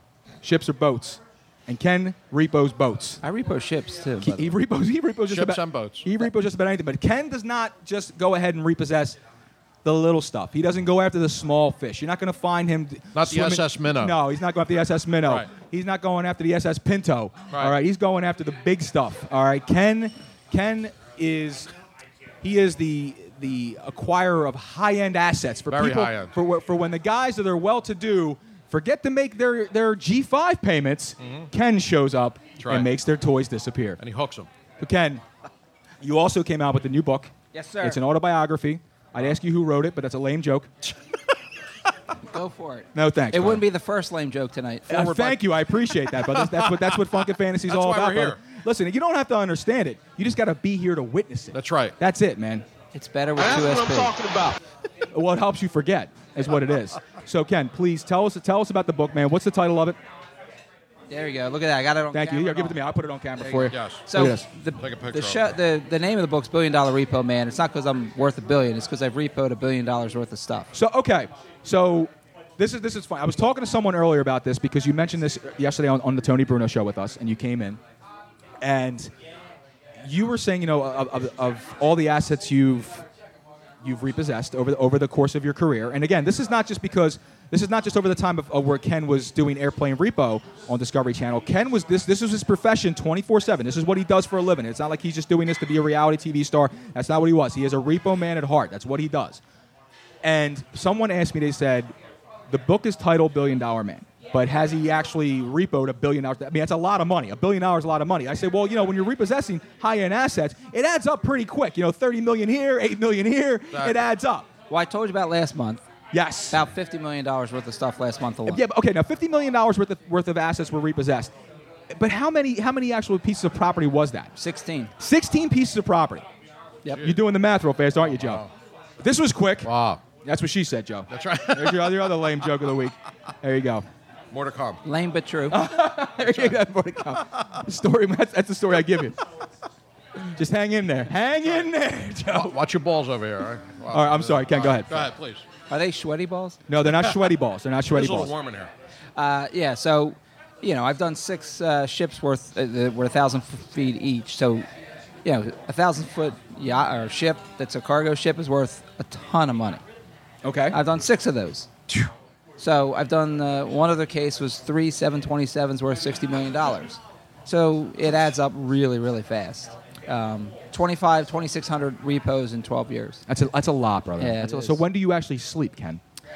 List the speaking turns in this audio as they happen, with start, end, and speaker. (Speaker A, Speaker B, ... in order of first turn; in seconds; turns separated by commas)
Speaker A: 0.4-3.2, Speaker B: 3.2-4.6, Speaker A: 4.2-9.2, Speaker C: 5.3-6.1, Speaker A: 9.8-21.7, Speaker C: 13.2-14.2, Speaker C: 15.2-15.5, Speaker C: 17.5-17.8, Speaker A: 22.4-34.0, Speaker C: 25.7-26.3, Speaker C: 31.2-31.5, Speaker C: 32.6-32.9, Speaker C: 34.0-34.5, Speaker A: 34.8-35.2, Speaker A: 36.0-40.7, Speaker B: 37.5-38.0, Speaker B: 42.3-45.4, Speaker A: 42.9-43.7, Speaker A: 44.9-52.7, Speaker C: 46.1-47.0, Speaker C: 47.7-48.4, Speaker C: 51.5-52.0, Speaker B: 52.9-54.2, Speaker C: 53.4-54.6, Speaker A: 53.8-54.5, Speaker A: 55.1-60.0, Speaker B: 61.1-62.8, Speaker A: 62.1-64.5, Speaker B: 63.4-70.7, Speaker C: 63.7-64.1, Speaker C: 64.8-65.6, Speaker A: 70.7-77.8, Speaker A: 78.6-79.1, Speaker A: 80.0-83.1, Speaker A: 83.8-99.4, Speaker A: 100.2-101.9, Speaker A: 102.5-114.5, Speaker C: 113.7-114.0, Speaker B: 114.7-115.8, Speaker A: 116.1-116.6, Speaker B: 116.5-118.7, Speaker A: 118.5-121.3, Speaker A: 121.9-124.3, Speaker B: 124.4-124.9, Speaker A: 125.0-126.3, Speaker A: 127.0-128.4, Speaker C: 128.2-128.5, Speaker A: 129.0-129.7, Speaker C: 129.6-130.0, Speaker A: 130.2-133.9, Speaker C: 131.1-132.2, Speaker C: 134.3-134.8, Speaker B: 134.8-135.7, Speaker A: 135.5-139.2, Speaker C: 136.2-136.6, Speaker A: 140.4-142.6, Speaker C: 141.4-141.7, Speaker C: 142.3-145.5, Speaker A: 143.9-145.1, Speaker B: 145.7-146.6, Speaker A: 146.7-148.3, Speaker C: 146.8-147.4, Speaker C: 147.9-148.7, Speaker B: 149.2-154.7, Speaker B: 155.2-159.8, Speaker A: 160.4-160.8, Speaker B: 160.7-161.7, Speaker B: 162.6-173.2, Speaker A: 173.3-176.0, Speaker B: 174.2-174.8